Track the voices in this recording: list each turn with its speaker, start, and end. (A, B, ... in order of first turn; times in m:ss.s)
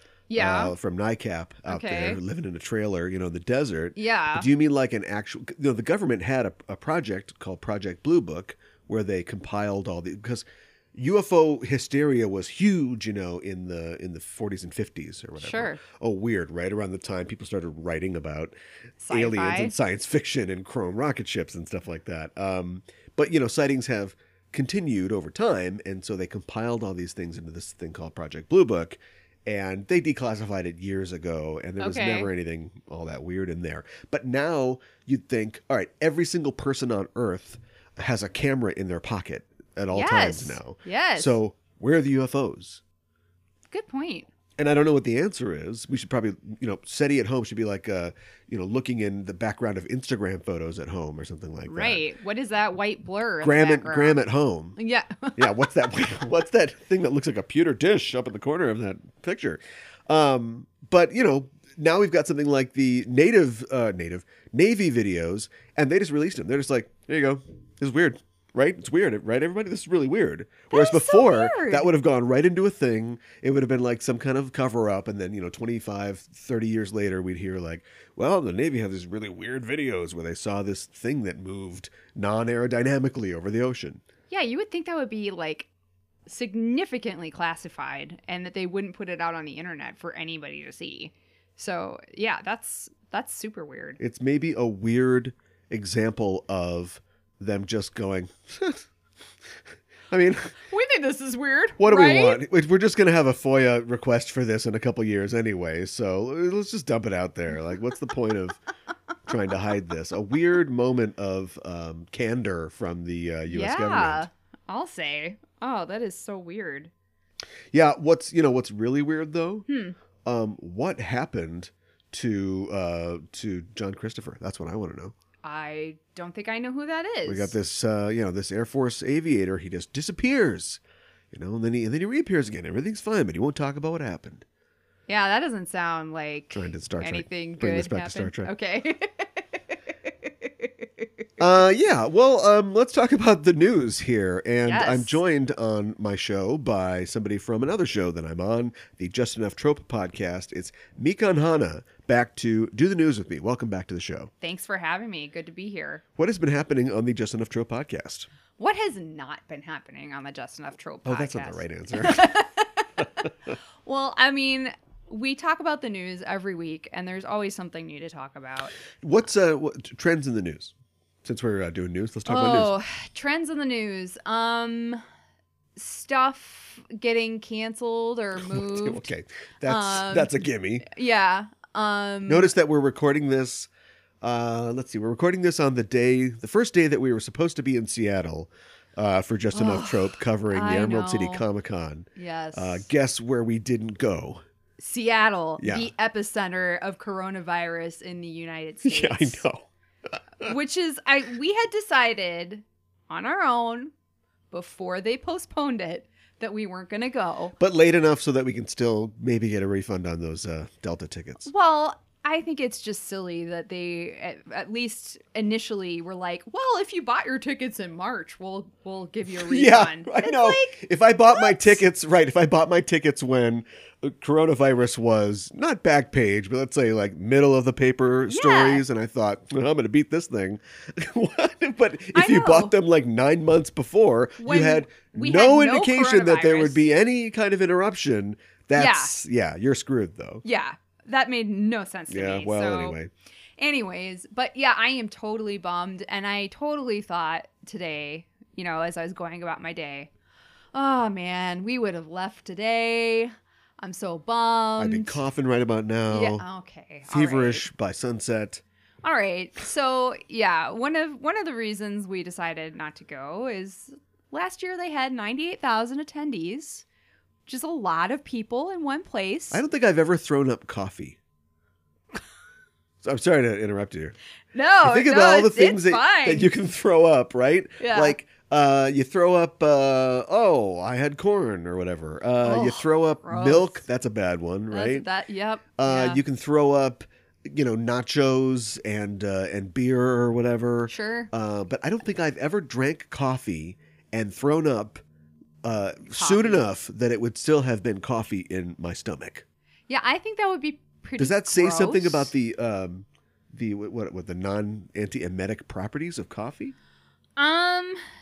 0:00.3-0:00.7 A
0:00.3-0:18.6 B
0:01.7-0:02.2 A
0:04.0-0:04.5 A
0:15.4-0:15.8 A
0:19.0-0:19.7 A
0:19.1-0:42.8 B
0:31.8-0:32.3 A
0:39.9-0:41.4 A
0:43.7-0:44.3 A
0:44.6-0:52.0 B
0:51.7-0:54.2 A
0:53.4-0:54.8 B
0:54.8-0:55.7 A
0:55.4-1:24.0 B
1:10.7-1:11.9 A
1:24.3-1:25.7 A
1:26.3-1:34.0 A
1:34.0-1:38.9 B
1:40.1-1:40.5 B
1:40.7-1:42.4 A
1:41.8-1:48.6 B
1:49.3-1:54.3 B
1:53.5-1:56.9 A
1:57.7-1:59.7 B
1:59.7-2:00.0 A
2:00.2-2:05.1 B
2:05.4-2:07.5 A
2:07.3-2:14.4 B
2:15.1-2:21.1 A
2:16.5-2:18.5 B
2:21.4-2:34.3 B
2:24.6-2:25.2 A
2:34.4-2:36.0 A
2:36.2-2:38.3 B
2:38.6-2:43.3 A
2:41.0-2:42.3 B
2:43.0-2:43.3 B
2:43.8-2:48.8 A
2:49.0-2:50.7 B
2:51.2-2:52.7 B
2:52.3-2:55.0 A
2:55.8-2:59.1 A
2:58.4-3:00.9 B
2:59.6-3:00.3 A
3:00.8-3:02.5 A
3:02.3-3:03.7 B
3:04.2-3:14.4 B
3:09.5-3:11.4 A
3:12.2-3:12.9 A
3:14.8-3:19.4 A
3:15.6-3:15.9 B
3:18.8-3:19.7 B
3:20.4-3:23.9 A
3:24.5-3:27.6 A
3:27.6-3:31.5 B
3:31.4-3:41.8 A
3:39.4-4:00.4 B
3:48.3-3:48.8 A
3:52.1-3:52.8 A
3:54.4-3:56.8 A
3:58.8-3:59.2 A
4:00.4-4:03.0 A
4:02.1-4:03.1 B
4:03.6-4:10.1 A
4:10.7-4:15.2 A
4:14.8-4:16.4 B
4:16.1-4:17.7 A
4:17.1-4:18.6 B
4:19.0-4:26.8 A
4:27.5-4:29.6 A
4:29.5-4:31.2 B
4:33.0-4:34.2 B
4:34.5-4:36.5 A
4:34.8-4:45.1 B
4:37.8-4:38.2 A
4:42.4-4:43.8 A
4:44.7-4:46.2 A
4:45.8-4:55.0 B
4:50.9-4:51.3 A
4:55.6-4:59.4 B
4:56.1-4:56.6 A
4:59.9-5:02.3 A
5:01.2-5:06.7 B
5:07.4-5:08.0 A